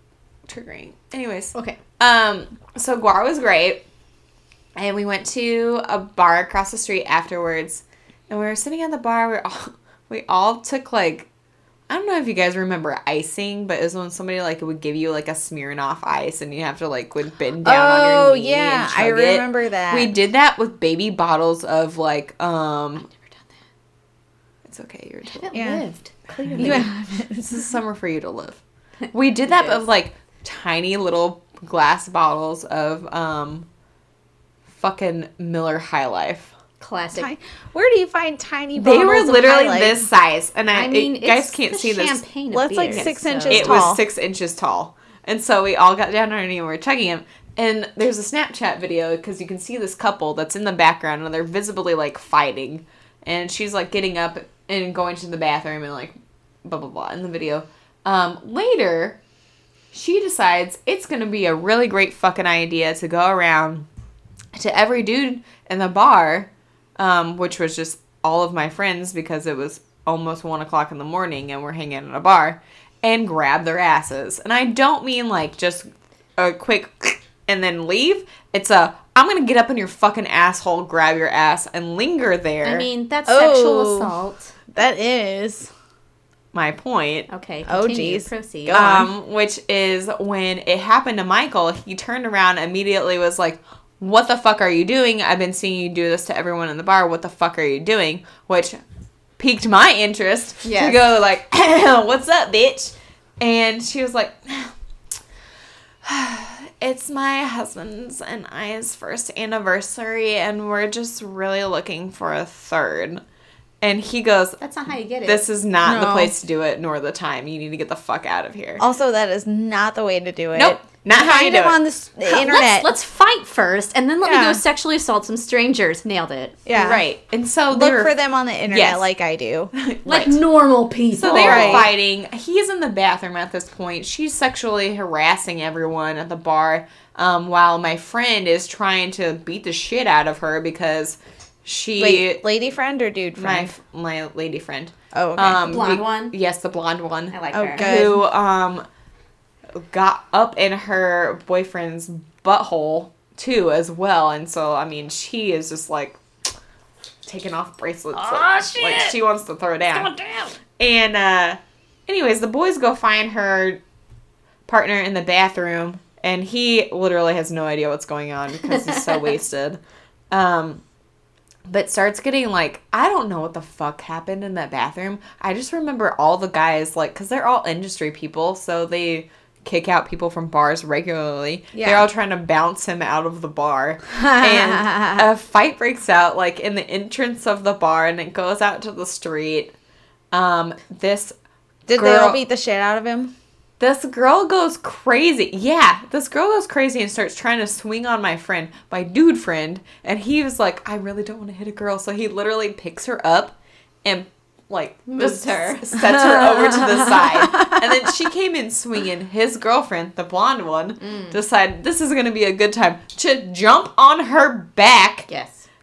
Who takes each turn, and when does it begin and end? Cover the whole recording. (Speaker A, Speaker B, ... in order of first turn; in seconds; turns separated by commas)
Speaker A: 0.5-3.8, Speaker A: 4.8-11.3, Speaker A: 11.9-23.1, Speaker B: 17.6-20.1, Speaker A: 24.6-25.5, Speaker C: 25.2-26.9, Speaker B: 25.5-25.8, Speaker A: 26.3-28.6, Speaker B: 26.6-27.7, Speaker C: 29.0-29.8, Speaker A: 29.1-33.7, Speaker A: 34.7-36.5, Speaker C: 36.8-37.3, Speaker B: 37.1-40.0, Speaker A: 38.8-42.2, Speaker C: 40.7-43.8, Speaker B: 42.5-44.0, Speaker A: 42.9-59.2, Speaker A: 59.9-63.9, Speaker A: 64.5-82.9, Speaker C: 82.6-84.5, Speaker B: 83.3-84.1, Speaker B: 84.7-85.7, Speaker A: 86.5-87.3, Speaker C: 87.3-88.8, Speaker B: 87.7-89.1, Speaker A: 88.7-98.8, Speaker A: 99.4-104.7, Speaker C: 100.6-101.0, Speaker A: 106.0-113.2, Speaker A: 113.8-114.6, Speaker C: 114.6-115.5, Speaker A: 115.2-118.8, Speaker B: 115.8-116.3, Speaker B: 118.8-122.9, Speaker A: 120.5-121.8, Speaker C: 122.2-126.6, Speaker B: 124.2-124.6, Speaker B: 126.7-127.0, Speaker A: 126.7-128.1, Speaker B: 127.7-129.7, Speaker A: 128.7-129.1, Speaker A: 129.7-130.4, Speaker C: 130.1-131.9, Speaker A: 131.1-142.4, Speaker B: 131.3-131.9, Speaker B: 142.0-143.7, Speaker A: 143.4-148.8, Speaker B: 145.1-145.8, Speaker C: 145.6-146.3, Speaker C: 147.3-148.1, Speaker B: 147.5-148.2, Speaker A: 149.7-156.2, Speaker A: 157.2-160.1, Speaker C: 158.2-159.2, Speaker C: 159.9-160.5, Speaker A: 160.8-163.8, Speaker A: 164.7-169.8, Speaker C: 168.7-169.3, Speaker A: 170.3-170.8, Speaker A: 171.7-189.7, Speaker B: 181.8-182.1, Speaker B: 184.2-185.2, Speaker A: 190.3-191.3, Speaker B: 191.9-193.3, Speaker A: 191.9-192.4, Speaker A: 193.8-215.3, Speaker C: 205.1-205.9, Speaker B: 207.3-207.8, Speaker C: 211.0-211.3, Speaker C: 215.3-215.7